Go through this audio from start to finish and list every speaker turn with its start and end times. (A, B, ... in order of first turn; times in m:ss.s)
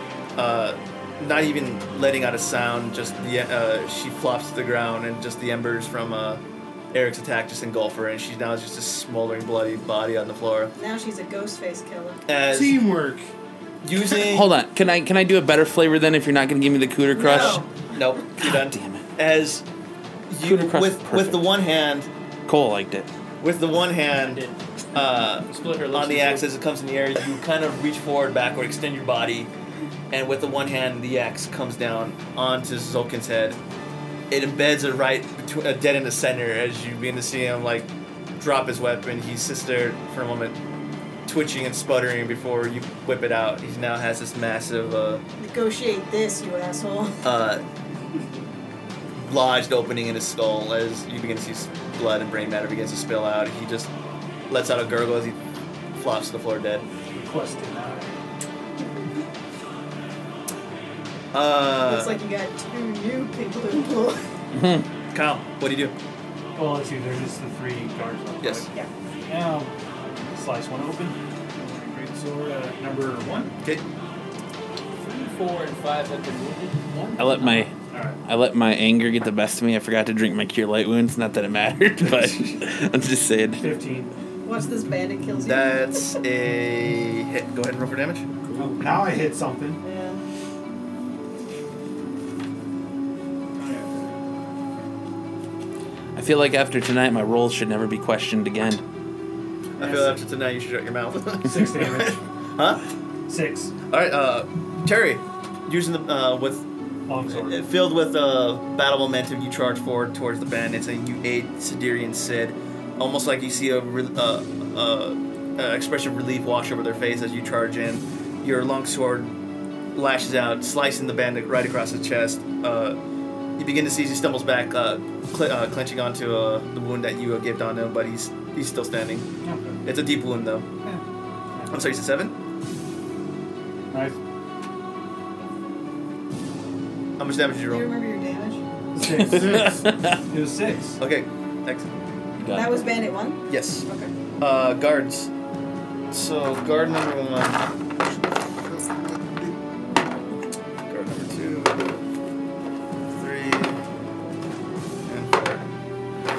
0:00.4-0:06.4 A
0:06.9-0:10.7 A
0:10.8-0:12.2 B
0:12.3-0:12.8 A
0:12.5-0:13.3 C
0:13.8-0:14.5 A
0:14.2-0:17.6 D
0:17.1-0:17.7 B
0:17.2-0:19.6 A
0:18.4-0:19.0 D
0:20.3-0:22.1 A
0:20.4-0:21.5 D
0:22.5-0:23.1 D
0:23.4-0:24.4 A
0:24.1-0:26.5 E
0:24.9-0:29.5 A
0:30.1-0:33.6 A
0:34.3-0:40.6 A
0:41.3-0:45.2 A
0:45.4-0:47.3 B
0:47.2-0:47.6 A
0:49.2-0:53.9 A
0:54.5-0:55.4 A
0:55.9-0:56.9 A
0:57.1-0:58.2 F
1:01.3-1:02.2 A
1:01.8-1:04.2 B
1:04.5-1:04.9 D
1:05.1-1:05.9 A
1:06.6-1:13.6 F
1:08.4-1:08.7 A
1:15.0-1:17.7 E
1:17.2-1:17.7 D
1:17.9-1:18.2 F
1:18.2-1:23.6 D
1:23.6-1:24.1 F
1:24.4-1:25.8 B
1:25.4-1:28.2 A
1:28.4-1:29.0 C
1:28.6-1:29.8 F
1:29.8-1:30.2 B
1:33.6-1:34.2 F
1:36.2-1:38.8 D
1:39.8-1:40.2 F
1:39.8-1:42.8 A
1:41.4-1:42.2 F
1:43.3-1:43.7 F
1:43.9-1:46.7 A
1:47.1-1:47.6 F
1:47.3-1:59.4 A
2:00.0-2:03.0 A
2:03.6-2:09.3 A
2:09.4-2:09.8 F
2:09.8-2:10.7 A
2:11.6-2:11.9 F
2:11.7-2:12.4 A
2:13.9-2:14.2 F
2:17.2-2:17.9 A
2:17.7-2:18.6 B
2:19.0-2:21.0 F
2:19.1-2:20.2 D
2:21.0-2:21.9 A
2:22.4-2:22.8 D
2:22.5-2:24.1 B
2:23.5-2:23.9 A
2:24.4-2:25.3 A
2:26.1-2:27.6 A
2:28.1-2:29.6 C
2:30.9-2:31.9 A
2:33.1-2:33.8 A
2:35.1-2:35.6 A